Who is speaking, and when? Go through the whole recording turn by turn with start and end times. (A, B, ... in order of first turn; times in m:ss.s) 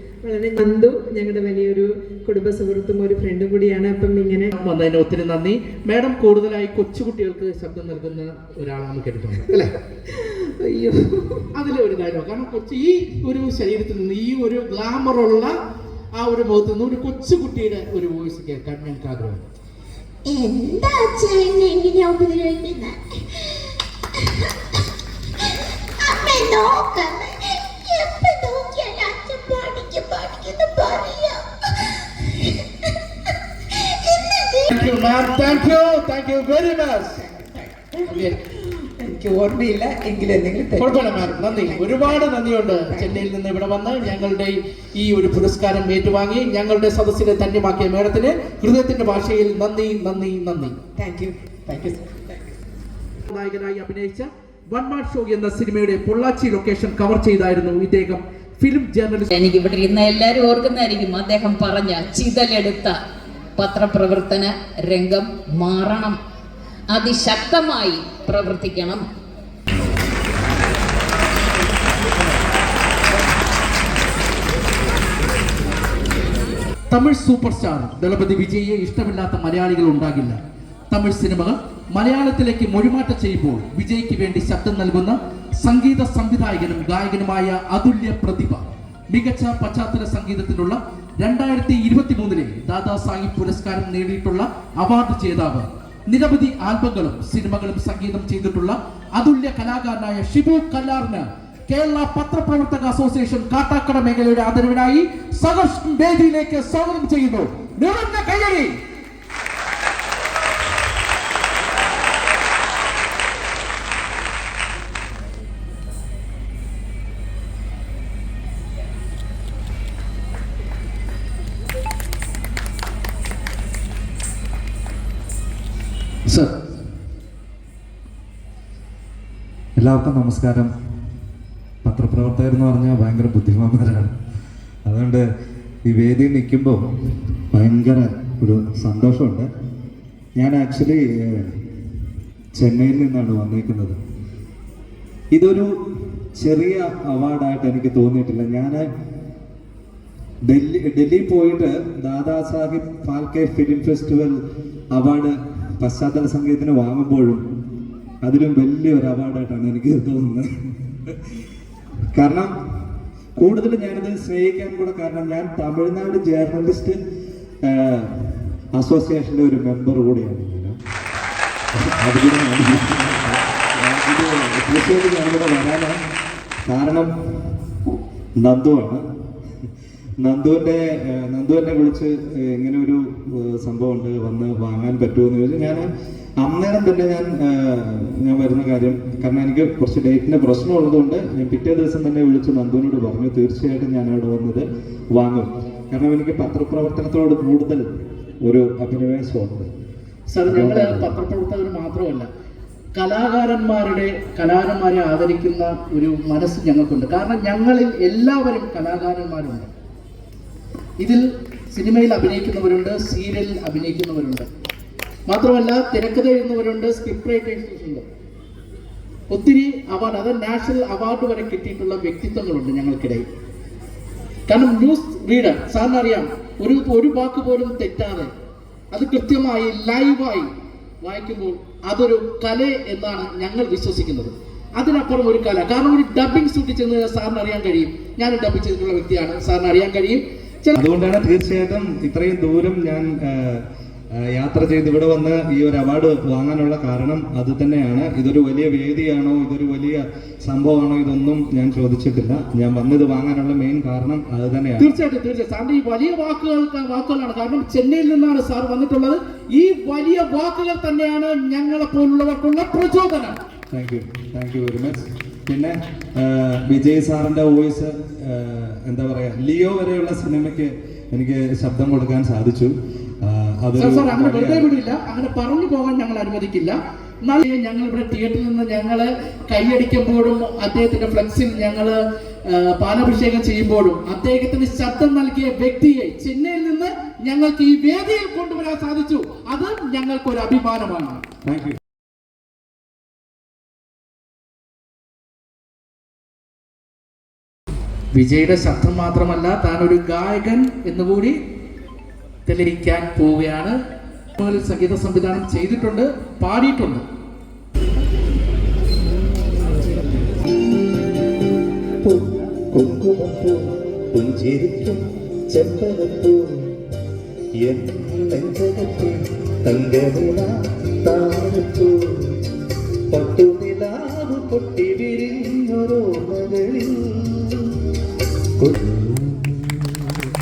0:00.2-0:04.5 A
0:04.5-0:09.7 B
0:10.6-0:10.9 A
0:11.5-0:15.5 B
0:16.2-0:19.5 B
0:20.3-0:23.0 C
0:26.1-0:27.3 C
0:27.8-0:31.4 C
0:34.3-0:35.0 C
0:34.7-0:37.2 B
0:38.0-0:38.4 B
0:39.1-0:40.4 A
0:40.8-0:50.8 B
0:51.1-0:51.7 A
0:53.3-0:59.3 B
0:59.3-1:03.0 D
1:03.6-1:06.2 D
1:06.9-1:09.0 D
1:16.9-1:20.4 B
1:20.9-1:48.7 B
2:09.8-2:10.7 E
2:11.8-2:14.1 E
2:14.9-2:15.3 E
2:15.8-2:16.9 E
2:17.5-2:19.5 E
2:20.4-2:21.6 E
2:22.6-2:24.0 E
2:25.3-2:25.7 E
2:26.4-2:28.9 E
2:30.5-2:34.4 E
2:34.9-2:37.4 E
2:38.2-2:41.2 E
2:42.1-2:42.5 E
2:43.4-2:47.0 E
2:47.6-2:50.8 E
2:51.7-2:56.0 E
2:56.6-2:57.5 E
2:58.4-2:59.1 E
3:00.2-3:05.9 E
3:06.4-3:19.7 E
3:20.3-3:22.3 B
3:20.5-3:21.1 E
3:23.0-3:29.7 B
3:31.0-3:34.5 B
3:35.3-3:38.0 B
3:39.3-3:43.3 B
3:44.5-3:48.3 B
3:48.9-3:50.5 B
3:51.0-4:00.8 B
4:00.8-4:14.9 E
4:14.8-4:23.4 B
4:23.7-4:34.7 E
4:33.8-4:51.2 B
4:51.4-4:51.8 E
4:58.1-5:01.4 B
5:02.5-5:03.8 B
5:04.4-5:07.0 B
5:12.0-5:16.7 E
5:17.6-5:22.4 E
5:23.1-5:27.7 E
5:28.6-5:30.1 E